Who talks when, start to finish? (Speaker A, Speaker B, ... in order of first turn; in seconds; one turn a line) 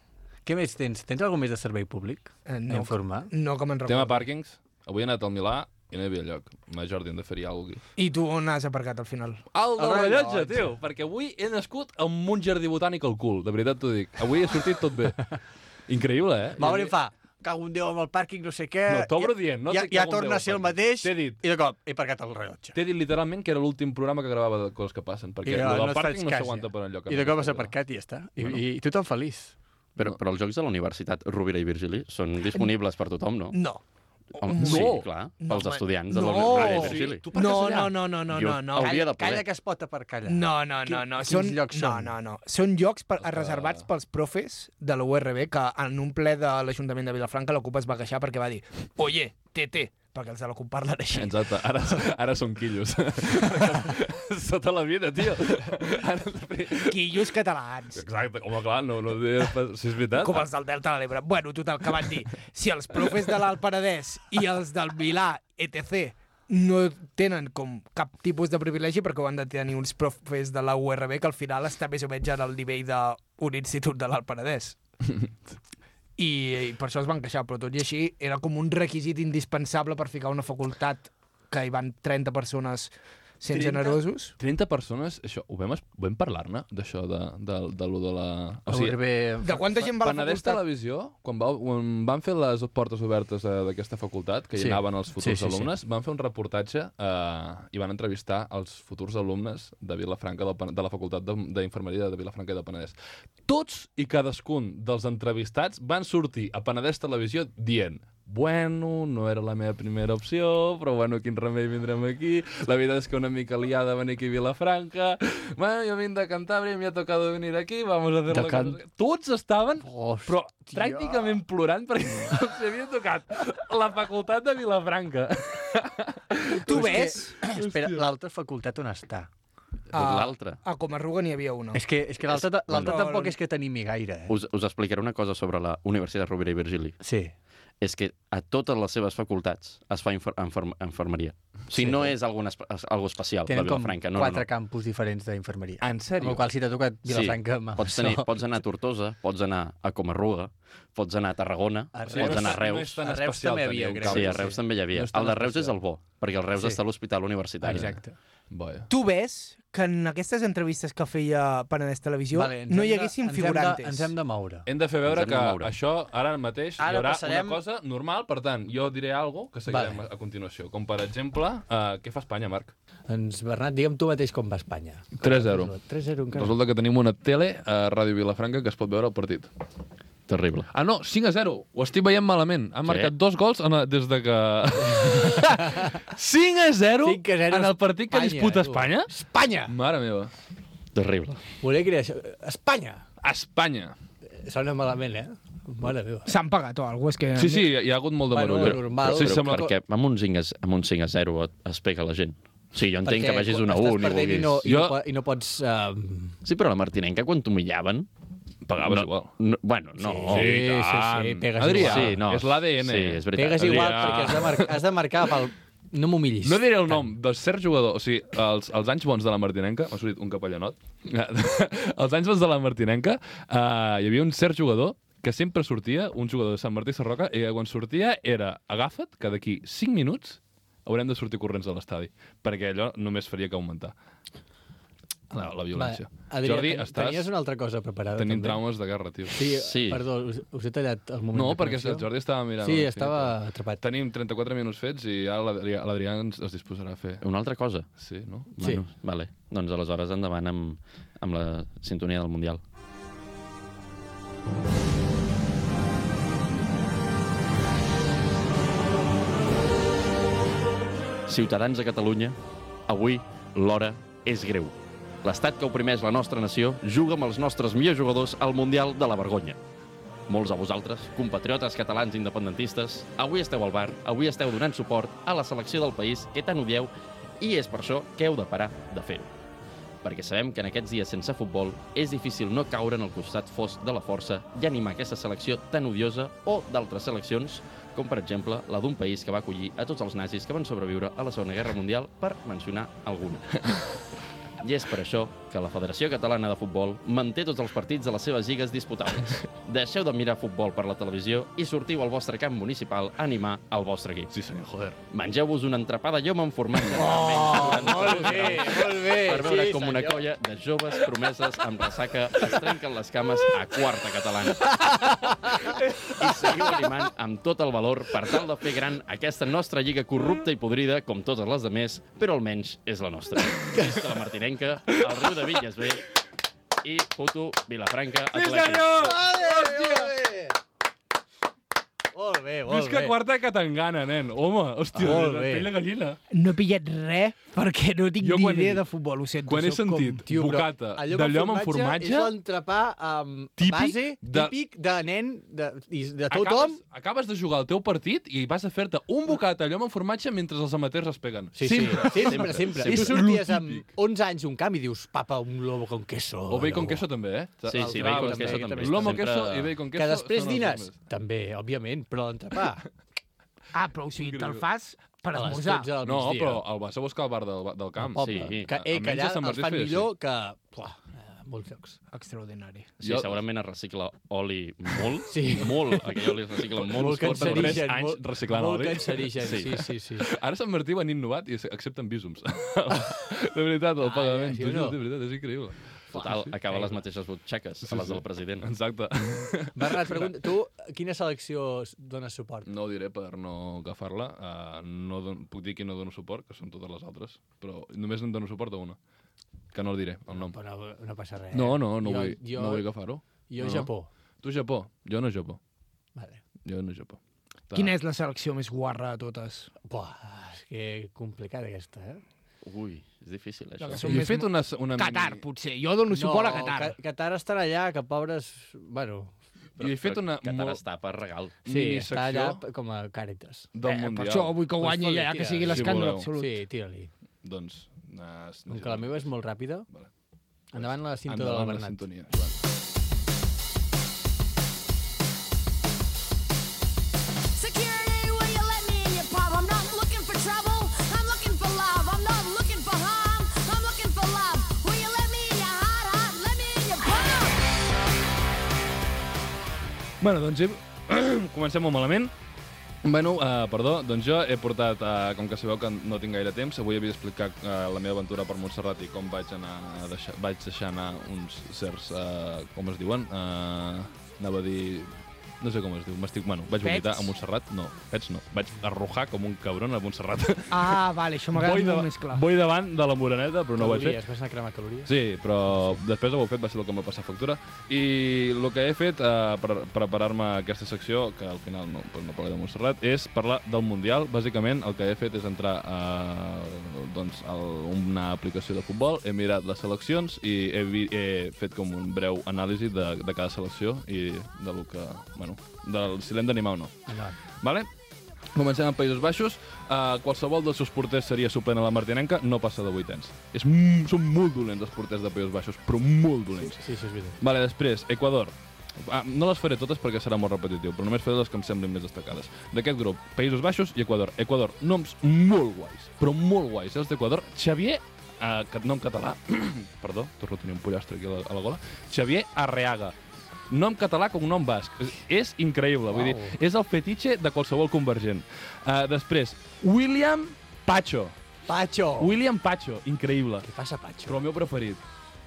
Speaker A: 0.5-3.3
Speaker B: 2.5-4.2
Speaker C: 3.9-7.8
Speaker B: 8.0-9.4
Speaker C: 9.5-15.3
Speaker A: 9.8-10.7
Speaker C: 15.9-16.9
Speaker A: 16.6-22.8
Speaker C: 18.9-21.4
Speaker C: 22.7-27.8
Speaker A: 25.4-29.6
Speaker D: 30.0-33.6
Speaker B: 33.5-33.8
Speaker B: 34.4-39.0
Speaker D: 34.4-37.2
Speaker C: 34.6-35.1
Speaker C: 36.2-38.0
Speaker D: 38.3-39.5
Speaker A: 38.8-42.1
Speaker B: 40.3-51.4
Speaker C: 43.2-43.9
Speaker C: 51.1-57.4
Speaker B: 56.8-58.0
Speaker C: 57.9-60.5
Speaker B: 60.2-74.8
Speaker B: 76.2-84.3
Speaker A: 83.5-84.0
Speaker C: 84.4-89.0
Speaker A: 88.7-89.6
Speaker B: 89.4-90.6
Speaker C: 89.7-128.1
Speaker A: 94.6-95.7
Speaker A: 118.3-118.8
Speaker A: 119.8-121.4
Speaker B: 126.6-127.4
Speaker A: 126.7-129.3
Speaker D: 129.9-130.6
Speaker B: 129.9-131.8
Speaker A: 131.7-134.3
Speaker D: 132.3-133.1
Speaker B: 132.8-133.4
Speaker D: 134.3-137.0
Speaker A: 137.0-137.3
Speaker D: 137.8-144.5
Speaker A: 141.7-142.1
Speaker A: 143.5-148.3
Speaker C: 145.8-146.5
Speaker D: 147.1-153.0
Speaker A: 151.9-155.8
Speaker C: 152.1-154.6
Speaker D: 154.1-157.9
Speaker A: 157.6-158.2
Speaker C: 157.7-158.9
Speaker B: 158.9-164.1
Speaker A: 162.3-164.7
Speaker C: 164.7-172.7
Speaker D: 165.1-165.7
Speaker A: 166.8-167.6
Speaker A: 169.7-170.0
Speaker A: 173.1-176.6
Speaker C: 175.2-175.7
Speaker C: 176.3-179.5
Speaker D: 180.3-180.7
Speaker C: 180.7-189.1
Speaker D: 182.8-183.1
Speaker A: 185.2-186.0
Speaker A: 187.0-189.7
Speaker C: 189.7-190.3
Speaker D: 190.9-191.4
Speaker A: 191.6-193.0
Speaker C: 193.2-193.9
Speaker A: 194.3-196.3
Speaker B: 196.3-197.7
Speaker C: 197.3-199.7
Speaker A: 198.3-199.6
Speaker D: 198.6-204.6
Speaker A: 203.0-206.4
Speaker C: 204.6-205.0
Speaker D: 206.4-208.1
Speaker C: 208.7-209.3
Speaker D: 208.8-210.6
Speaker A: 210.0-212.2
Speaker C: 210.3-214.8
Speaker D: 211.8-214.4
Speaker A: 213.3-217.1
Speaker C: 216.4-233.9
Speaker C: 235.3-237.3
Speaker A: 235.7-238.6
Speaker C: 238.2-239.5
Speaker A: 239.3-243.8
Speaker D: 239.6-240.0
Speaker C: 241.3-247.2
Speaker D: 247.2-247.9
Speaker C: 248.0-248.5
Speaker D: 248.5-252.6
Speaker A: 248.6-248.8
Speaker D: 261.3-262.4
Speaker D: 262.9-269.6
Speaker D: 270.3-279.3
Speaker D: 280.0-293.7
Speaker D: 294.6-304.3
Speaker C: 304.3-305.0
Speaker D: 305.1-314.9
Speaker A: 306.9-310.2
Speaker C: 307.9-308.7
Speaker A: 314.8-315.8
Speaker D: 316.2-326.1
Speaker D: 326.8-328.9
Speaker C: 328.3-330.2
Speaker A: 328.9-330.6
Speaker A: 332.1-333.2
Speaker C: 332.7-336.2
Speaker A: 334.9-335.7
Speaker B: 336.3-340.2
Speaker C: 338.2-338.9
Speaker C: 339.4-342.4
Speaker A: 340.2-346.8
Speaker C: 343.6-344.6
Speaker C: 346.3-353.9
Speaker A: 351.6-357.1
Speaker D: 352.4-353.2
Speaker C: 356.5-360.9
Speaker A: 357.7-359.3
Speaker D: 357.7-359.7
Speaker A: 359.9-362.9
Speaker B: 363.7-365.9
Speaker C: 364.2-364.6
Speaker A: 365.3-366.6
Speaker C: 366.0-370.1
Speaker A: 368.0-372.0
Speaker D: 368.2-368.7
Speaker B: 372.1-372.9
Speaker D: 373.0-377.9
Speaker C: 373.0-373.4
Speaker A: 375.3-376.0
Speaker C: 376.8-379.5
Speaker A: 376.8-380.3
Speaker D: 379.4-379.8
Speaker C: 380.2-386.5
Speaker A: 384.0-385.0
Speaker A: 386.1-387.0
Speaker D: 386.1-388.7
Speaker C: 387.9-390.4
Speaker A: 389.7-392.7
Speaker C: 392.6-399.0
Speaker C: 399.7-400.6
Speaker A: 400.3-404.1
Speaker C: 401.5-403.9
Speaker C: 404.4-405.6
Speaker A: 406.1-406.4
Speaker C: 406.6-407.9
Speaker B: 407.7-409.7
Speaker A: 409.9-412.2
Speaker D: 412.6-414.2
Speaker B: 413.8-417.0
Speaker C: 414.0-415.4
Speaker A: 416.1-419.4
Speaker C: 419.8-420.8
Speaker D: 419.8-421.6
Speaker C: 421.6-422.6
Speaker A: 421.6-423.7
Speaker C: 423.7-424.9
Speaker B: 423.8-426.6
Speaker A: 424.8-427.1
Speaker C: 425.6-426.3
Speaker C: 427.4-429.3
Speaker A: 428.7-429.9
Speaker A: 430.7-432.1
Speaker C: 430.7-432.6
Speaker E: 437.6-447.7
Speaker C: 450.2-452.3
Speaker C: 453.0-471.0
Speaker B: 466.8-467.3
Speaker B: 470.7-472.4
Speaker C: 471.5-474.2
Speaker A: 473.8-475.1
Speaker C: 475.1-496.9
Speaker A: 475.7-476.0
Speaker A: 497.1-497.4
Speaker C: 497.6-497.9
Speaker C: 498.6-506.8
Speaker A: 506.6-507.4
Speaker C: 507.4-523.1
Speaker C: 523.7-531.4
Speaker A: 526.1-526.6
Speaker A: 531.7-532.3
Speaker C: 532.2-533.7
Speaker A: 533.6-534.4
Speaker C: 534.3-535.0